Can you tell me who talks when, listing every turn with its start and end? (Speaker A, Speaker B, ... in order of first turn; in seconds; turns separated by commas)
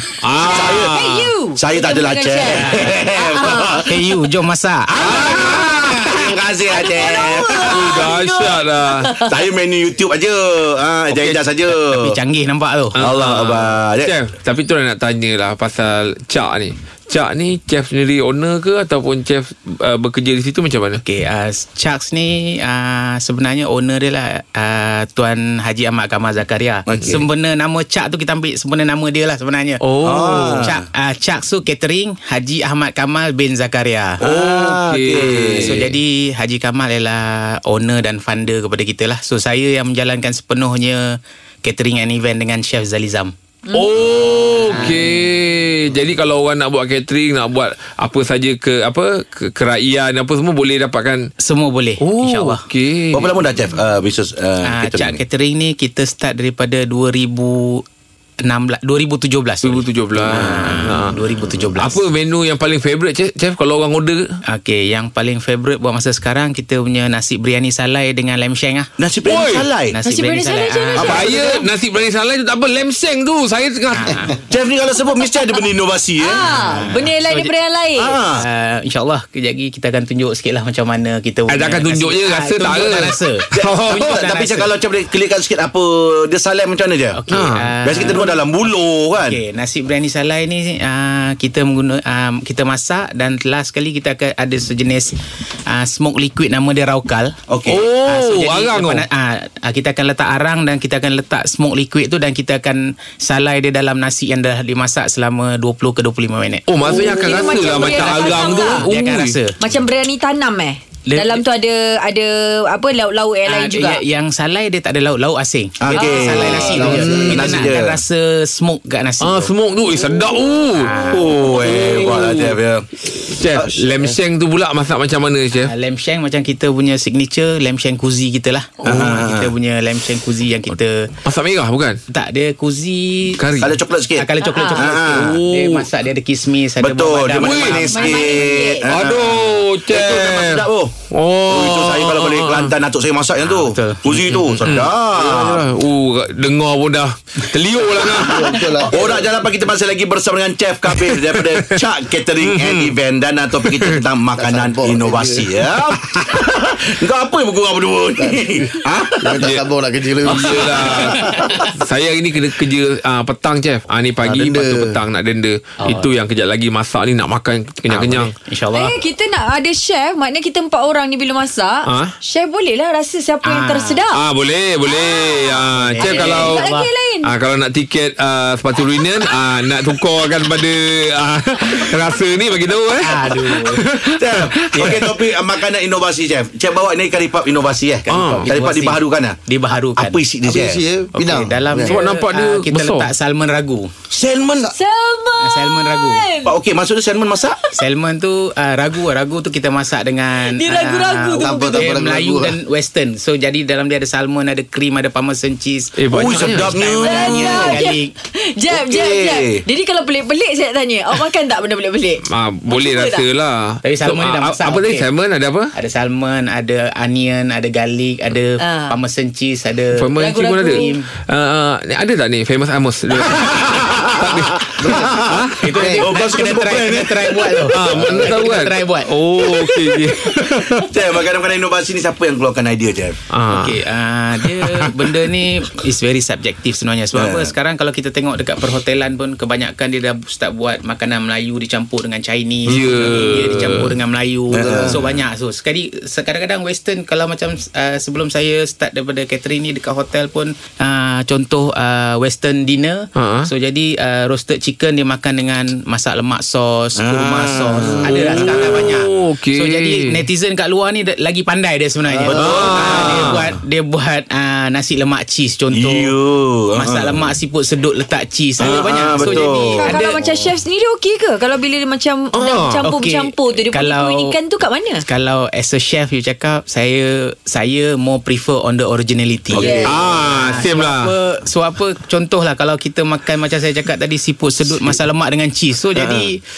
Speaker A: 0.2-1.3, Speaker B: 0.4-3.9, Speaker C: 0.5-1.0, Speaker C: 1.5-3.9, Speaker D: 2.5-2.9, Speaker D: 3.9-5.5, Speaker C: 5.0-8.0, Speaker A: 5.0-6.2, Speaker B: 6.7-9.3, Speaker A: 7.7-9.1, Speaker C: 9.2-12.2, Speaker D: 11.1-13.0, Speaker C: 13.0-14.1, Speaker A: 13.0-21.0, Speaker D: 21.0-29.9, Speaker C: 26.9-27.2, Speaker A: 29.8-30.7, Speaker C: 30.0-30.8, Speaker D: 30.6-34.2, Speaker C: 34.2-35.9, Speaker A: 34.2-35.9, Speaker D: 35.2-43.3, Speaker A: 43.7-51.3, Speaker D: 44.7-45.2, Speaker D: 51.4-52.6, Speaker A: 52.0-53.4, Speaker C: 53.1-55.2, Speaker D: 54.6-57.9, Speaker D: 58.4-62.0, Speaker A: 59.6-64.3, Speaker C: 60.3-60.6, Speaker D: 64.5-68.9, Speaker C: 69.0-70.0, Speaker A: 69.3-69.7, Speaker D: 69.9-71.5, Speaker B: 70.0-71.6, Speaker A: 71.0-74.3, Speaker D: 73.9-74.4, Speaker C: 74.5-76.5, Speaker B: 76.2-78.2, Speaker D: 76.6-77.5, Speaker C: 78.0-78.5, Speaker D: 78.3-84.8, Speaker A: 81.5-84.2, Speaker C: 83.5-87.2, Speaker D: 87.1-95.2, Speaker A: 87.3-88.2, Speaker C: 87.8-89.4, Speaker D: 95.7-97.3, Speaker C: 97.5-97.8, Speaker A: 97.7-99.1, Speaker D: 98.0-106.7, Speaker A: 106.7-109.4, Speaker B: 106.8-108.9, Speaker D: 107.2-109.6, Speaker B: 109.6-114.0, Speaker D: 111.1-111.4, Speaker D: 113.5-119.5, Speaker C: 115.8-118.0, Speaker B: 115.9-116.9, Speaker E: 116.9-117.5, Speaker A: 119.2-122.6, Speaker D: 120.8-121.3, Speaker C: 121.1-122.9, Speaker A: 123.1-125.7, Speaker D: 125.6-131.1, Speaker C: 128.8-129.5, Speaker A: 131.2-132.0, Speaker D: 132.1-133.5, Speaker A: 133.4-133.8, Speaker C: 133.6-135.4, Speaker D: 134.2-138.4, Speaker B: 134.4-134.9, Speaker A: 135.1-135.9, Speaker C: 136.8-140.9, Speaker A: 137.4-137.9, Speaker B: 137.9-138.9, Speaker A: 138.8-142.7, Speaker C: 141.5-145.7, Speaker D: 143.4-144.8, Speaker A: 144.6-148.7, Speaker E: 148.2-149.0, Speaker D: 148.6-149.2, Speaker C: 148.9-159.4, Speaker A: 150.9-151.8, Speaker A: 152.4-152.9, Speaker A: 153.7-154.0, Speaker E: 154.4-155.6, Speaker E: 158.2-158.6, Speaker E: 159.2-161.0, Speaker A: 160.3-168.3, Speaker D: 161.1-161.7, Speaker E: 164.2-165.0, Speaker D: 165.8-166.1, Speaker D: 167.9-169.0, Speaker B: 168.7-174.2, Speaker A: 171.9-172.2, Speaker D: 173.5-174.0, Speaker A: 174.1-176.6, Speaker B: 174.9-177.3, Speaker D: 175.7-176.9, Speaker A: 177.2-185.3, Speaker D: 183.0-183.9, Speaker C: 184.2-189.4, Speaker D: 188.1-190.2, Speaker A: 188.1-188.5, Speaker C: 190.0-190.8, Speaker E: 190.4-191.9, Speaker D: 191.1-193.9, Speaker A: 191.9-193.1, Speaker C: 194.1-194.7, Speaker B: 194.7-196.5, Speaker D: 195.4-196.3, Speaker C: 196.4-197.6, Speaker D: 197.7-208.1, Speaker B: 200.5-201.9, Speaker E: 201.4-202.6, Speaker A: 206.0-206.8, Speaker C: 206.1-207.8, Speaker B: 207.0-213.2, Speaker C: 208.7-209.6, Speaker A: 212.3-215.7, Speaker D: 213.8-215.1, Speaker D: 215.7-221.1, Speaker B: 218.6-218.9, Speaker A: 219.9-225.7, Speaker B: 220.2-220.9, Speaker C: 223.3-225.4, Speaker E: 224.8-225.1, Speaker D: 225.6-230.2, Speaker E: 225.7-226.1, Speaker C: 226.0-227.7, Speaker A: 227.7-230.9, Speaker C: 230.8-233.2, Speaker A: 233.3-233.8, Speaker D: 233.5-266.2, Speaker A: 234.4-235.3, Speaker C: 237.1-237.5, Speaker A: 242.7-244.0, Speaker E: 244.5-245.0, Speaker C: 244.5-245.1, Speaker A: 253.2-253.5, Speaker C: 257.0-259.0, Speaker A: 257.9-260.3, Speaker E: 262.1-262.6, Speaker A: 262.3-263.4, Speaker C: 262.3-263.4, Speaker C: 265.7-267.2, Speaker D: 266.8-270.5, Speaker C: 268.6-269.9, Speaker B: 269.2-275.1, Speaker A: 272.4-272.9, Speaker D: 272.8-274.4, Speaker D: 275.0-286.4, Speaker C: 279.5-279.9, Speaker B: 279.5-279.9, Speaker A: 279.9-281.1, Speaker C: 285.9-286.3